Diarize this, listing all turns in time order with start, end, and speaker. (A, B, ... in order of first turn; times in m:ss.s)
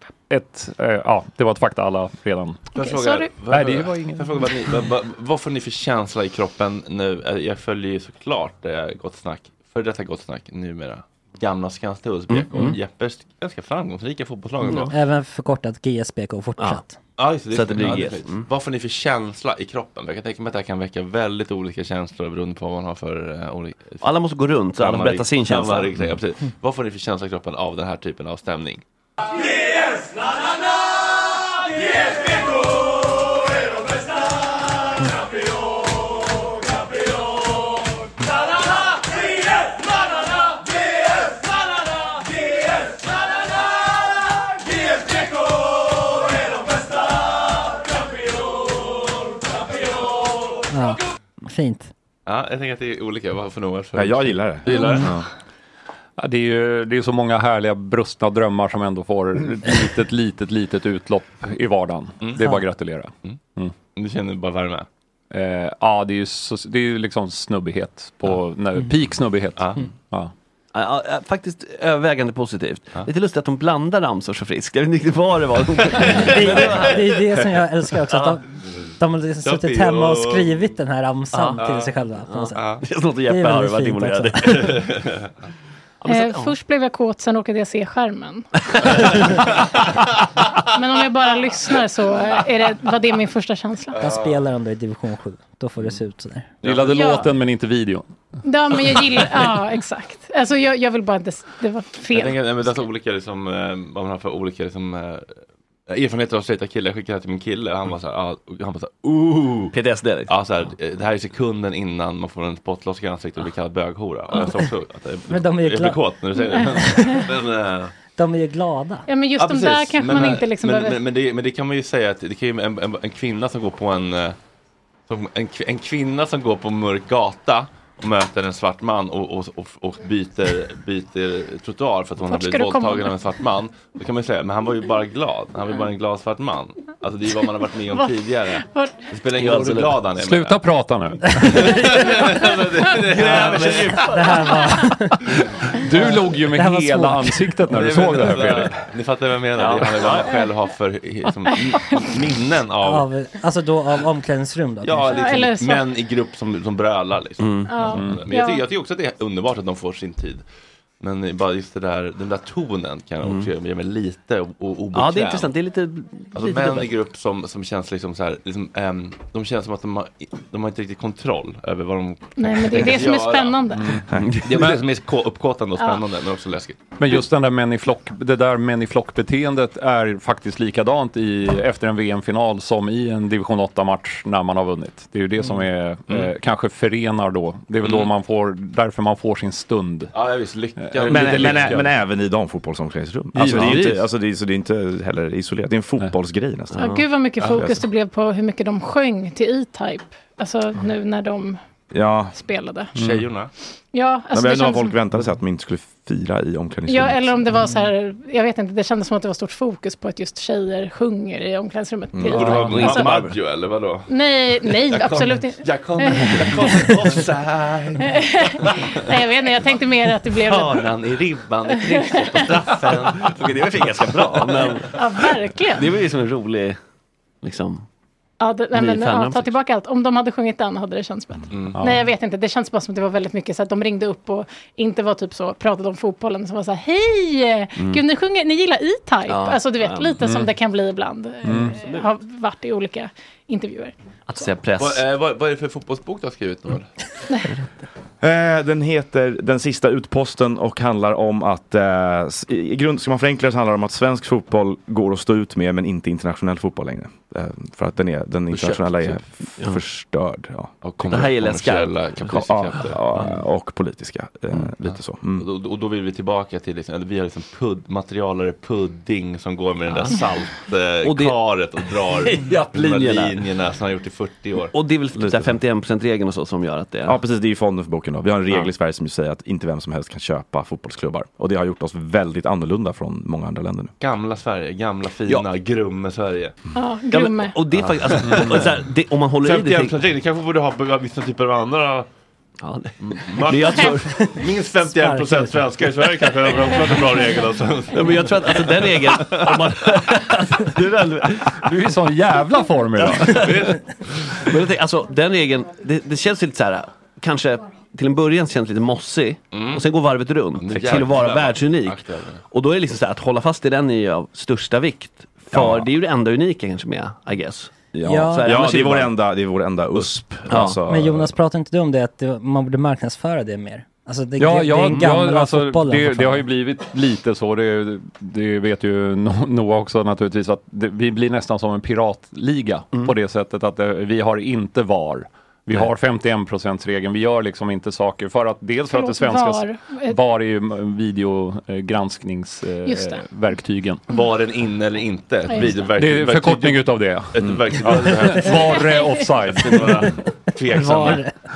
0:00.3-0:02.6 A
0:02.7-0:14.9 B
0:02.8-0:03.4 C
0:03.5-0:04.3 A
0:12.3-0:12.8 D
0:14.6-0:14.9 D
0:14.9-0:16.9 E
0:16.6-0:16.8 D
0:17.2-0:24.0 B
0:17.5-0:18.5 D
0:24.0-0:25.9 D
0:24.8-0:28.8 B
0:50.7-0:51.9 E
0:52.2-0:55.2 B
0:53.9-0:55.2 F
0:54.7-0:55.1 E
0:56.2-1:03.7 A
1:03.9-1:04.9 B
1:05.3-1:10.3 A
1:10.7-1:17.4 D
1:15.9-1:16.7 B
1:16.1-1:18.4 E
1:18.1-1:18.4 D
1:19.0-1:22.6 E
1:19.4-1:20.6 B
1:21.3-1:21.6 D
1:21.6-1:21.9 B
1:22.2-1:25.0 D
1:22.5-1:22.8 B
1:23.3-1:24.8 E
1:26.0-1:26.6 D
1:26.0-1:28.5 C
1:30.7-1:33.9 C
1:33.9-1:34.4 B
1:34.0-1:36.5 E
1:36.6-1:37.1 B
1:36.6-1:38.0 A
1:36.8-1:37.3 C
1:38.4-1:42.4 C
1:42.1-1:49.7 B
1:49.7-1:50.3 D
1:50.3-1:57.9 B
1:55.3-1:56.0 E
1:56.4-1:57.3 C
1:56.6-1:57.2 E
1:58.2-1:59.0 E
1:59.1-2:01.0 C
1:59.4-2:04.4 B
2:05.1-2:20.6 B
2:12.3-2:13.1 C
2:17.9-2:19.0 C
2:19.3-2:20.0 D
2:20.2-2:21.7 A
2:21.4-2:24.6 B
2:23.0-2:24.4 D
2:24.1-2:25.2 E
2:25.7-2:28.7 A
2:26.0-2:27.5 E
2:27.7-2:33.1 B
2:29.6-2:30.3 D
2:31.5-2:32.2 C
2:32.8-2:35.4 E
2:34.8-2:40.4 B
2:35.1-2:35.9 C
2:37.4-2:37.7 D
2:37.7-2:38.6 C
2:37.9-2:38.2 A
2:41.0-2:45.5 B
2:43.2-2:43.5 D
2:44.9-2:46.9 D
2:46.3-2:56.9 B
2:52.4-2:54.0 C
2:54.2-2:54.8 D
2:55.8-2:56.0 C
2:57.0-3:10.1 A
3:10.1-3:11.8 B
3:10.8-3:11.9 A
3:11.1-3:16.8 F
3:13.4-3:14.0 D
3:13.4-3:13.8 A
3:16.8-3:17.0 D
3:16.8-3:21.6 C
3:21.9-3:22.3 F
3:22.3-3:22.9 C
3:23.0-3:23.3 A
3:23.0-3:23.5 B
3:23.9-3:25.0 C
3:24.3-3:27.4 F
3:26.9-3:33.1 C
3:32.1-3:33.2 F
3:32.3-3:34.1 B
3:32.3-3:33.2 D
3:34.1-3:37.0 C
3:34.6-3:38.9 B
3:38.0-3:40.9 C
3:40.4-3:44.8 B
3:41.7-3:42.5 C
3:42.7-3:44.9 D
3:44.9-3:45.9 C
3:45.7-3:46.8 D
3:47.4-3:47.8 D
3:48.4-4:04.4 C
3:48.7-3:49.5 D
3:51.5-3:51.8 B
3:51.8-3:52.0 A
3:59.3-4:00.3 D
4:00.2-4:00.5 A
4:01.4-4:01.8 A
4:04.3-4:05.0 D
4:04.8-4:06.9 B
4:08.2-4:20.7 F
4:18.5-4:18.8 B
4:20.8-4:23.3 B
4:21.0-4:22.4 D
4:22.3-4:25.4 F
4:25.4-4:34.7 B
4:29.9-4:30.2 D
4:31.0-4:33.4 D
4:34.7-4:37.2 D
4:35.2-4:35.5 F
4:37.0-4:43.9 F
4:44.0-4:46.6 B
4:46.7-4:47.6 C
4:47.1-4:50.0 D
4:47.9-4:48.6 B
4:48.2-4:48.5 A
4:49.4-4:52.1 B
4:52.6-4:54.4 D
4:53.0-4:59.8 B
4:54.8-4:55.5 E
4:57.9-5:01.9 D
5:01.6-5:03.5 A
5:03.0-5:03.7 D
5:03.3-5:04.4 B
5:04.3-5:19.1 D
5:09.5-5:09.8 B
5:10.6-5:12.4 B
5:15.5-5:15.9 F
5:17.9-5:21.3 F
5:18.0-5:18.6 E
5:20.5-5:20.8 D
5:20.8-5:26.4 E
5:24.4-5:44.0 A
5:38.8-5:40.2 C
5:42.8-5:43.3 C
5:44.1-5:48.9 B
5:45.5-5:45.8 C
5:46.0-5:50.2 A
5:48.6-5:49.3 C
5:49.4-5:51.2 B
5:50.7-5:51.3 E